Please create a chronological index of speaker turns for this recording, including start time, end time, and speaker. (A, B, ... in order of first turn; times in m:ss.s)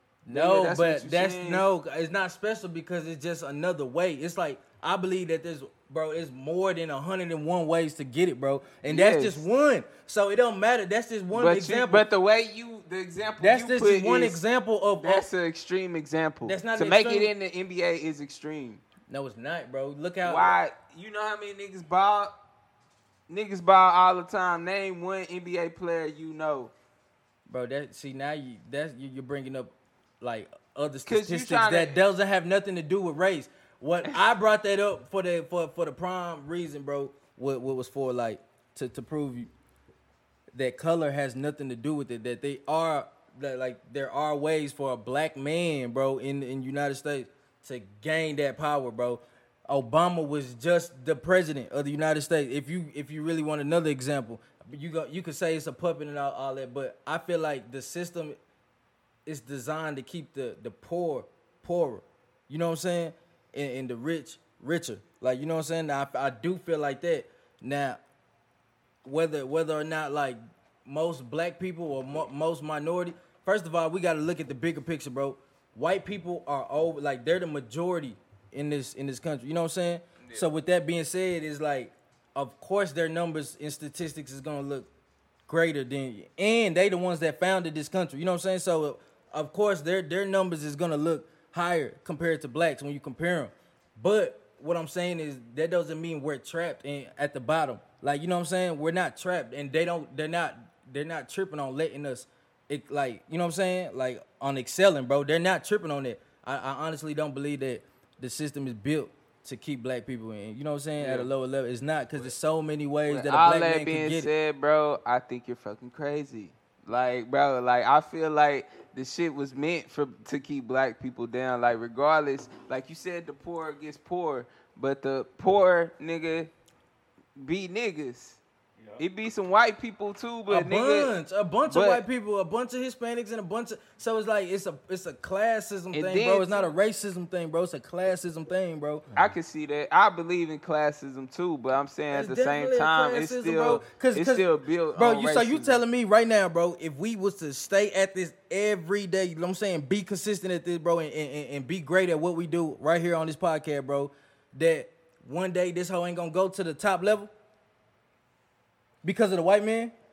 0:00.2-0:12.0 A
0:00.3-0:01.6 B
0:08.8-0:09.4 B
0:11.3-0:14.4 B
0:13.4-0:15.3 A
0:15.0-0:18.8 B
0:16.4-0:17.3 A
0:19.1-0:20.5 A
0:20.2-0:22.3 B
0:23.3-0:26.7 B
0:27.5-0:39.5 A
0:31.0-0:32.0 B
0:40.5-0:58.4 A
0:59.2-1:08.0 A
1:09.0-1:24.9 A
1:20.2-1:20.5 B
1:25.5-1:54.3 A
1:51.0-1:51.3 B
1:53.1-2:06.5 B
2:07.4-2:08.4 B
2:09.0-2:11.1 B
2:10.5-2:19.0 A
2:11.7-2:12.0 B
2:15.9-2:16.7 B
2:19.1-2:25.8 B
2:22.1-2:37.3 A
2:39.0-2:39.9 A